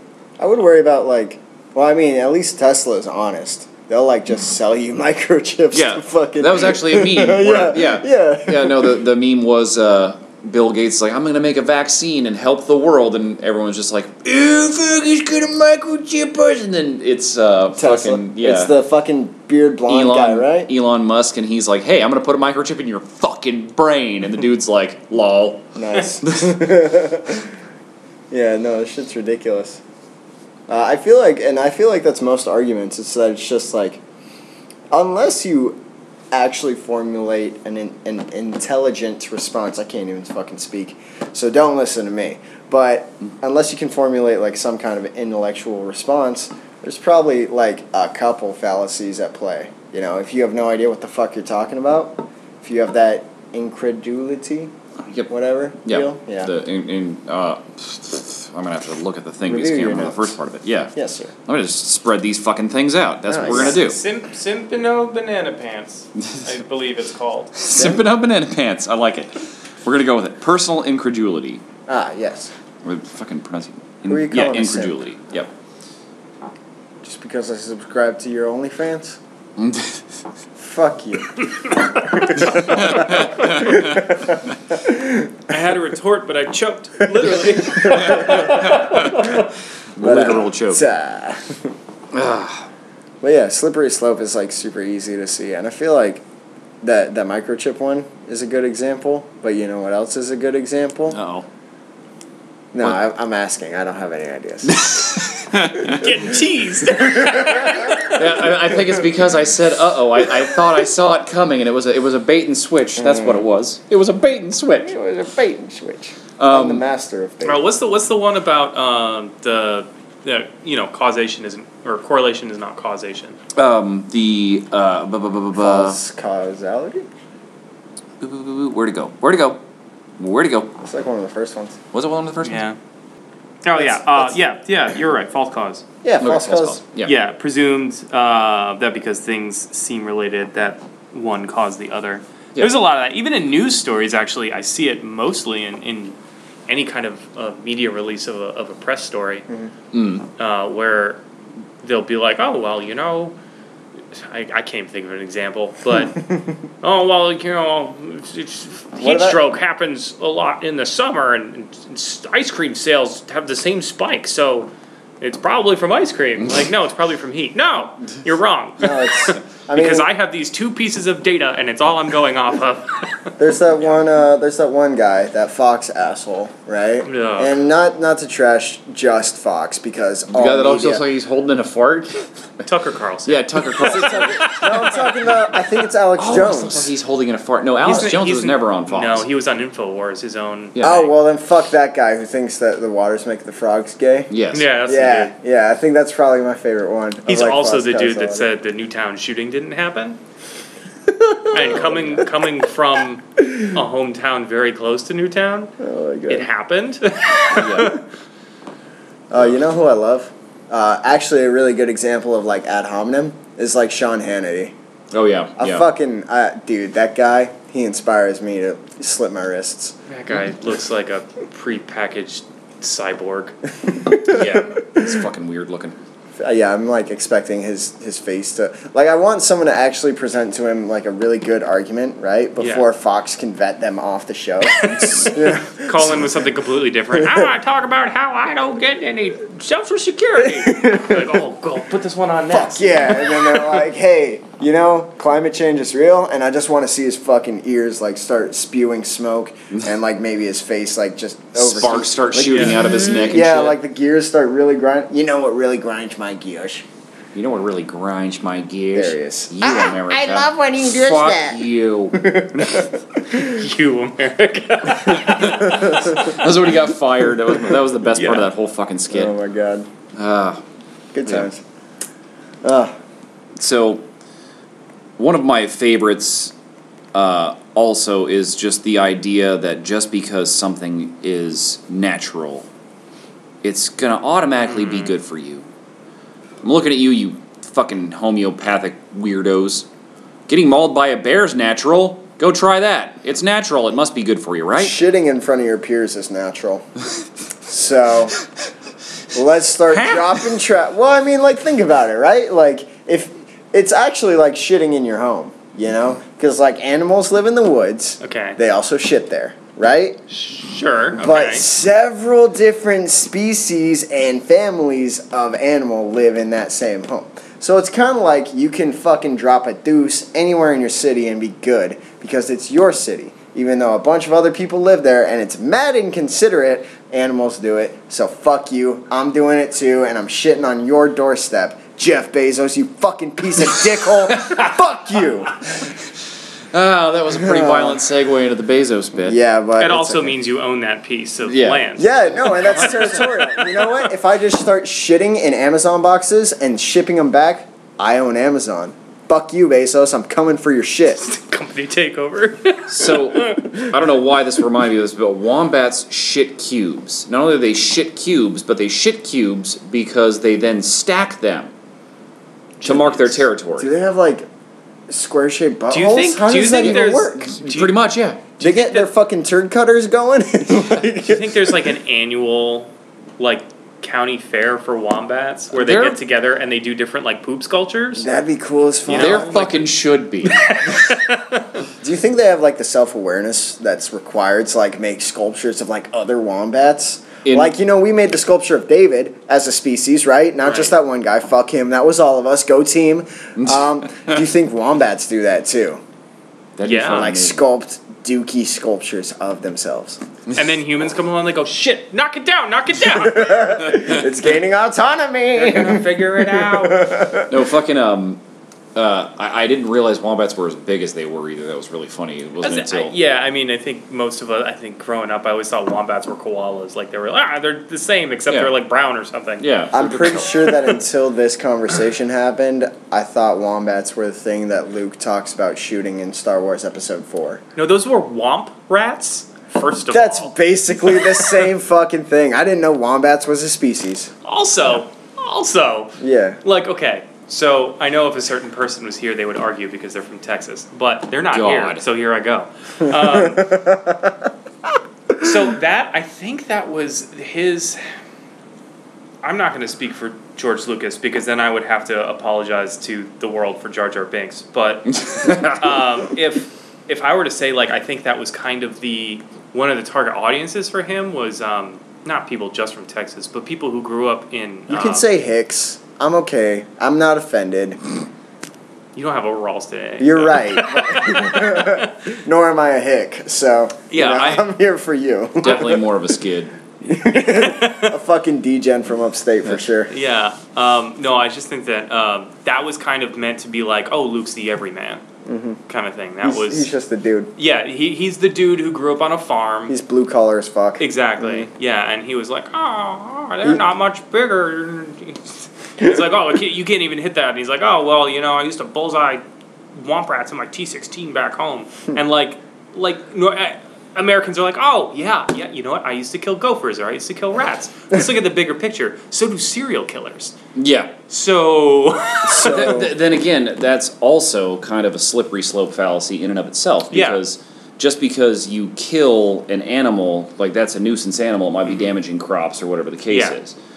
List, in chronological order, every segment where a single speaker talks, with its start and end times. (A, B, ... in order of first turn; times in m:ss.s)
0:00.4-0:09.0 A
0:05.7-0:18.7 B
0:17.8-0:20.7 A
0:19.9-0:25.7 B
0:25.7-0:27.5 A
0:28.3-0:29.8 A
0:30.7-0:34.0 A
0:34.9-0:35.8 A
0:36.3-0:54.7 A
0:55.3-0:56.5 A
0:55.8-1:00.9 B
0:59.4-1:00.3 A
1:00.9-1:01.3 A
1:01.4-1:04.0 B
1:03.3-1:03.8 A
1:03.5-1:07.6 C
1:07.6-1:11.6 B
1:07.8-1:08.0 A
1:11.9-1:12.5 A
1:12.8-1:15.5 B
1:14.1-1:15.0 A
1:17.0-1:19.2 A
1:19.6-1:20.0 B
1:20.6-1:25.5 A
1:22.5-1:24.0 B
1:25.5-1:29.5 C
1:27.1-1:28.7 A
1:28.4-1:29.1 B
1:30.0-1:30.8 B
1:30.0-1:31.7 A
1:32.1-1:32.6 B
1:33.2-1:36.2 A
1:36.8-1:41.2 A
1:41.1-1:41.4 B
1:42.7-1:45.1 A
1:44.6-1:46.1 B
1:45.8-1:48.2 C
1:47.0-1:47.9 A
1:48.1-1:54.9 B
1:53.0-1:53.4 A
1:54.8-1:57.7 A
1:56.4-1:56.8 B
1:57.4-2:03.4 C
2:03.5-2:06.0 B
2:05.5-2:07.1 A
2:08.2-2:09.6 B
2:10.2-2:10.8 B
2:10.8-2:11.8 A
2:11.9-2:12.6 B
2:12.4-2:12.8 C
2:13.6-2:15.8 C
2:13.8-2:14.3 A
2:16.0-2:16.8 A
2:16.2-2:17.1 B
2:17.0-2:26.2 C
2:26.7-2:29.4 C
2:29.9-2:30.2 B
2:30.4-2:31.2 C
2:31.8-2:33.3 C
2:34.1-2:36.2 C
2:36.8-2:44.7 C
2:39.0-2:39.4 A
2:45.2-2:53.2 C
2:48.8-2:50.1 A
2:53.4-3:01.0 A
2:57.0-2:57.6 C
3:00.3-3:02.3 B
3:02.6-3:04.4 C
3:03.2-3:05.0 B
3:03.8-3:06.9 A
3:06.2-3:09.2 B
3:07.8-3:10.8 C
3:10.7-3:11.1 B
3:10.8-3:14.3 A
3:14.3-3:14.7 B
3:14.5-3:15.3 C
3:14.8-3:18.5 A
3:17.2-3:20.2 C
3:21.2-3:22.2 A
3:21.5-3:25.7 C
3:25.8-3:26.5 A
3:26.3-3:28.0 C
3:27.5-3:28.0 B
3:29.3-3:34.7 A
3:35.1-3:35.9 B
3:35.6-3:39.9 A
3:40.1-3:43.6 C
3:44.0-3:45.1 A
3:44.2-3:46.0 B
3:46.4-3:56.5 A
3:52.6-3:52.8 C
3:54.6-4:03.8 C
3:57.1-3:57.5 A
4:00.5-4:01.4 A
4:02.5-4:16.8 A
4:11.5-4:13.8 B
4:12.5-4:12.8 C
4:17.3-4:22.4 B
4:18.9-4:23.4 A
4:23.3-4:26.1 C
4:25.2-4:29.3 B
4:28.2-4:28.5 C
4:29.1-4:29.9 A
4:30.2-4:30.6 B
4:31.1-4:31.6 A
4:32.6-4:32.9 A
4:33.6-4:34.0 B
4:35.2-4:36.5 B
4:37.1-4:42.6 B
4:43.6-4:45.6 B
4:44.7-4:45.1 C
4:46.6-4:49.9 B
4:50.5-4:55.0 B
4:54.8-4:56.8 A
4:57.6-4:58.4 A
4:59.3-5:10.2 A
4:59.9-5:00.4 B
5:08.2-5:08.6 C
5:10.3-5:11.6 C
5:11.1-5:35.8 A
5:34.3-5:34.7 B
5:36.7-5:39.4 B
5:37.3-5:38.0 A
5:39.2-5:40.4 A
5:39.8-5:43.6 C
5:41.4-5:41.8 B
5:42.0-5:51.2 A
5:51.2-5:53.9 C
5:52.9-6:01.7 B
6:02.8-6:03.9 B
6:03.8-6:04.5 A
6:05.1-6:07.5 A
6:05.9-6:07.9 C
6:07.5-6:08.5 B
6:08.6-6:09.1 C
6:08.6-6:11.6 A
6:11.2-6:18.3 C
6:15.7-6:16.2 B
6:18.2-6:19.7 A
6:19.1-6:19.9 C
6:19.1-6:20.7 B
6:20.4-6:21.6 C
6:22.0-6:36.0 A
6:27.4-6:27.7 B
6:30.6-6:30.9 C
6:33.6-6:34.4 B
6:36.8-6:37.6 B
6:36.8-6:37.2 C
6:37.1-6:40.2 A
6:40.5-6:44.0 C
6:43.1-6:47.5 A
6:45.5-6:47.1 C
6:47.5-6:48.4 B
6:48.9-6:53.1 B
6:52.6-6:59.6 C
6:59.6-7:00.7 B
6:59.9-7:07.6 A
7:07.8-7:10.5 C
7:10.1-7:14.3 A
7:11.2-7:11.4 C
7:14.4-7:23.7 C
7:16.2-7:16.6 A
7:21.5-7:22.0 B
7:23.2-7:24.5 A
7:25.4-7:28.0 C
7:29.4-7:45.3 C
7:35.1-7:35.9 B
7:44.9-7:48.0 A
7:49.1-7:52.0 C
7:50.2-7:56.0 A
7:54.1-7:54.6 C
7:55.6-7:56.7 B
7:57.0-8:00.1 A
7:57.3-7:58.1 C
8:00.1-8:05.2 C
8:05.4-8:05.8 A
8:05.9-8:06.9 C
8:06.4-8:07.5 A
8:07.6-8:09.9 C
8:09.9-8:11.6 A
8:11.0-8:19.4 C
8:19.9-8:30.5 C
8:30.8-8:31.1 B
8:31.3-8:32.8 C
8:32.4-8:33.1 A
8:32.5-8:43.7 B
8:37.1-8:37.4 C
8:43.3-8:43.6 C